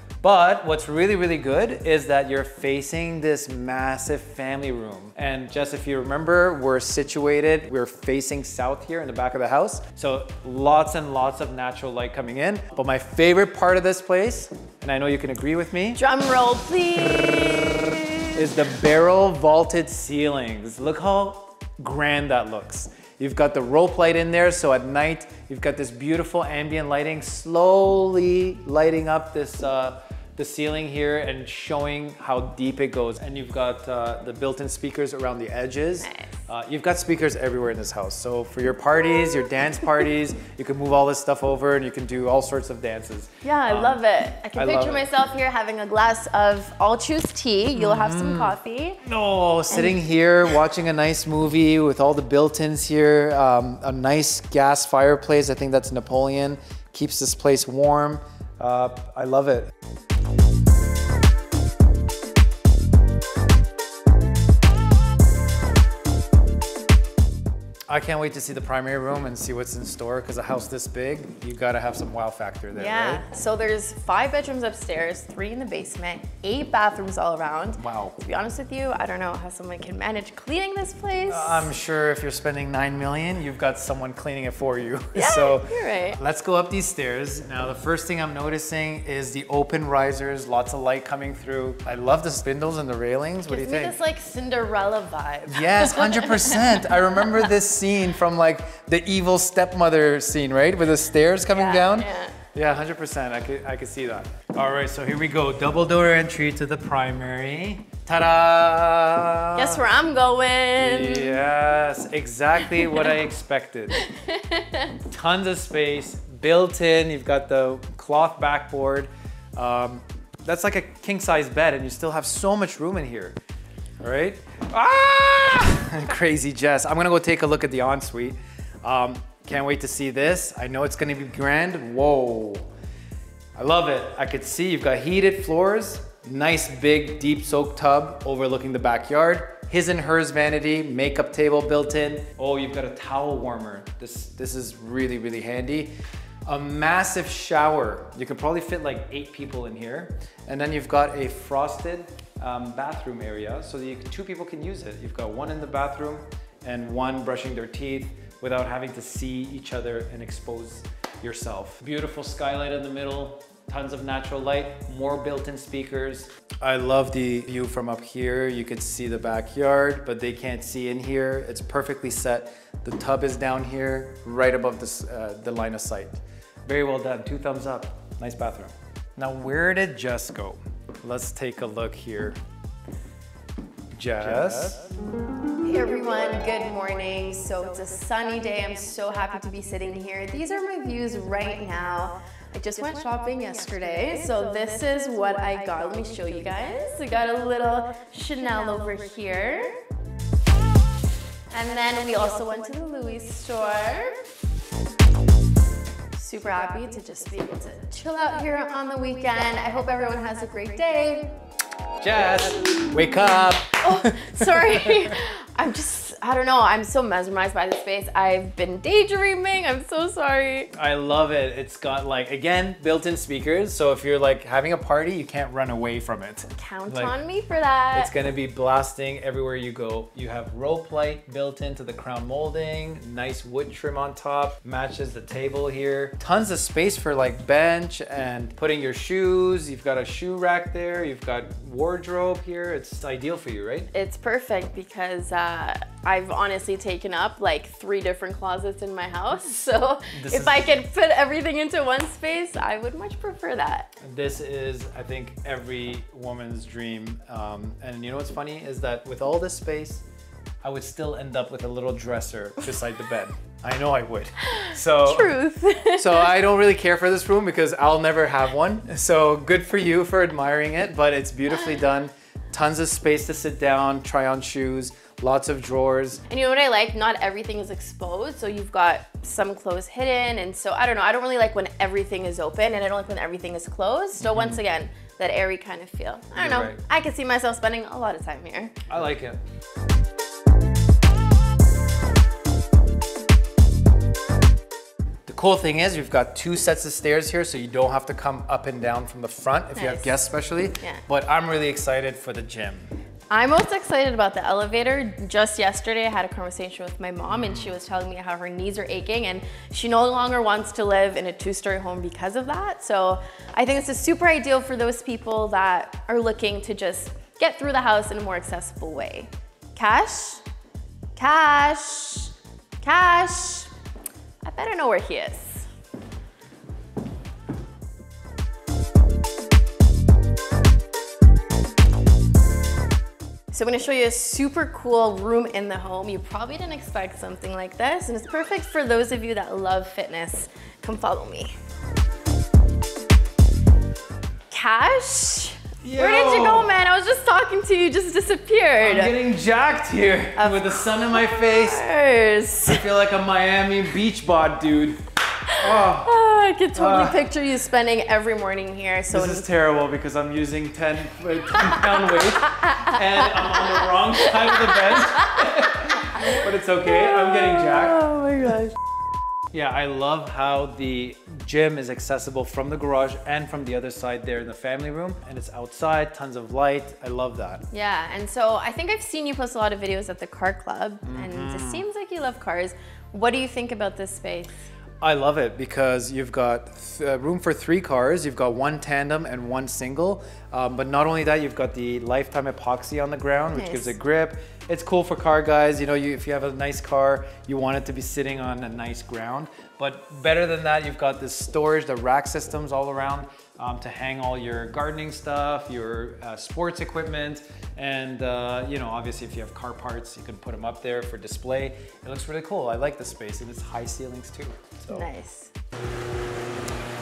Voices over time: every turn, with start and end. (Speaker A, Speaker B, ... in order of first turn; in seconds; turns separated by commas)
Speaker A: 0.2-16.0, Speaker B: 16.0-18.4, Speaker A: 18.4-44.0, Speaker B: 36.0-36.4, Speaker B: 43.4-49.0, Speaker A: 44.5-45.0, Speaker A: 47.8-59.7, Speaker B: 49.7-50.0, Speaker A: 67.9-73.2, Speaker B: 72.7-81.7, Speaker A: 77.8-78.2, Speaker A: 81.3-94.0, Speaker B: 85.1-86.2, Speaker B: 93.5-96.9, Speaker A: 95.5-109.8, Speaker B: 101.5-102.4, Speaker B: 109.5-111.4, Speaker A: 110.8-114.1, Speaker B: 114.0-114.9, Speaker A: 115.0-123.4, Speaker A: 124.0-132.7, Speaker A: 133.6-145.9, Speaker A: 146.5-182.4, Speaker A: 184.0-184.9, Speaker B: 185.6-199.8, Speaker B: 201.5-204.2, Speaker B: 206.2-211.4, Speaker A: 212.0-214.9, Speaker B: 213.8-220.7, Speaker A: 220.7-227.2, Speaker B: 226.6-228.2, Speaker A: 227.9-243.9, Speaker B: 243.9-253.9, Speaker A: 250.1-250.7, Speaker A: 254.0-260.0, Speaker A: 260.6-265.4, Speaker B: 264.6-266.3, Speaker A: 265.9-276.2, Speaker B: 276.3-288.8, Speaker A: 284.2-284.6, Speaker A: 286.3-286.8, Speaker A: 288.9-289.4, Speaker A: 295.3-302.9, Speaker B: 299.8-300.2, Speaker B: 303.3-320.4, Speaker A: 307.3-307.7, Speaker B: 321.2-323.7, Speaker B: 324.4-325.7, Speaker B: 333.5-341.6, Speaker B: 344.5-349.2, Speaker A: 345.8-346.8, Speaker A: 348.8-351.9, Speaker B: 350.4-352.9, Speaker A: 352.6-356.2, Speaker B: 355.5-359.5, Speaker A: 356.8-357.2, Speaker A: 359.1-368.1, Speaker B: 361.6-365.5, Speaker B: 366.1-368.8, Speaker A: 369.5-377.6, Speaker B: 377.7-384.6, Speaker A: 381.1-381.9, Speaker A: 385.0-415.1, Speaker B: 393.5-393.9, Speaker B: 414.9-415.5